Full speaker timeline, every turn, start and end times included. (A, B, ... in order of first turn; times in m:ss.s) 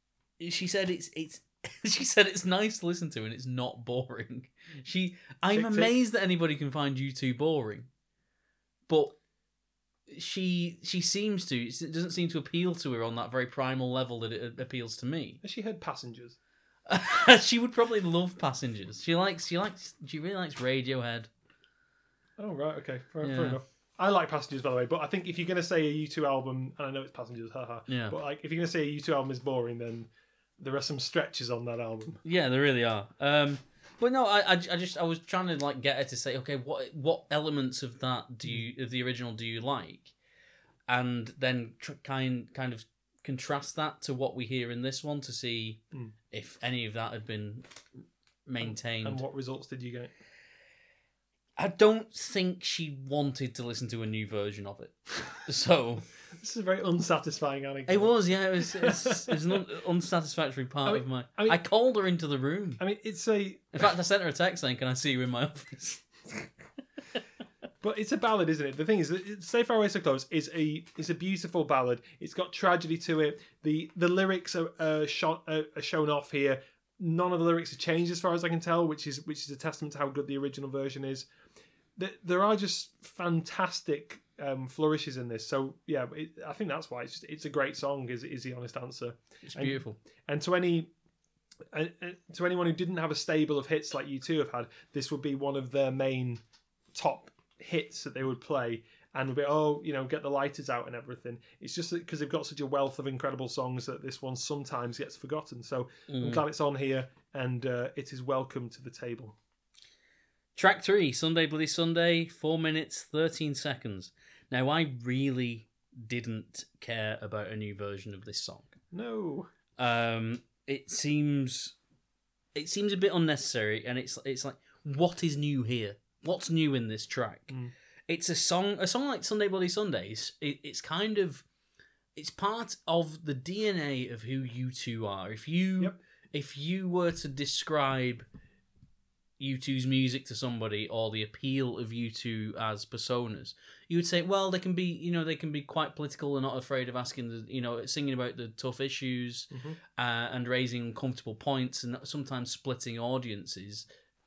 0:00.4-0:07.9 A
0:05.5-0:05.9 B
0:08.9-0:09.2 A
0:10.1-0:15.4 A
0:15.4-0:16.4 B
0:16.9-0:21.3 A
0:22.4-0:32.2 B
0:23.2-0:23.6 A
0:27.9-0:28.1 A
0:32.2-0:40.1 A
0:40.9-0:47.7 A
0:48.4-0:49.2 A
0:48.6-0:50.1 B
0:51.6-0:56.0 A
0:56.4-0:59.6 B
0:57.9-1:02.8 A
1:00.8-1:01.6 B
1:02.8-1:03.8 B
1:03.7-1:06.1 A
1:07.8-1:21.3 B
1:22.0-1:30.9 B
1:29.4-1:30.0 A
1:31.7-1:36.4 B
1:36.9-1:49.4 B
1:46.1-1:46.4 A
1:50.6-1:58.7 A
1:58.9-1:59.5 B
1:59.8-2:01.8 A
2:02.5-2:07.5 A
2:08.1-2:11.4 A
2:12.1-2:18.2 A
2:19.4-2:33.8 A
2:29.5-2:29.8 B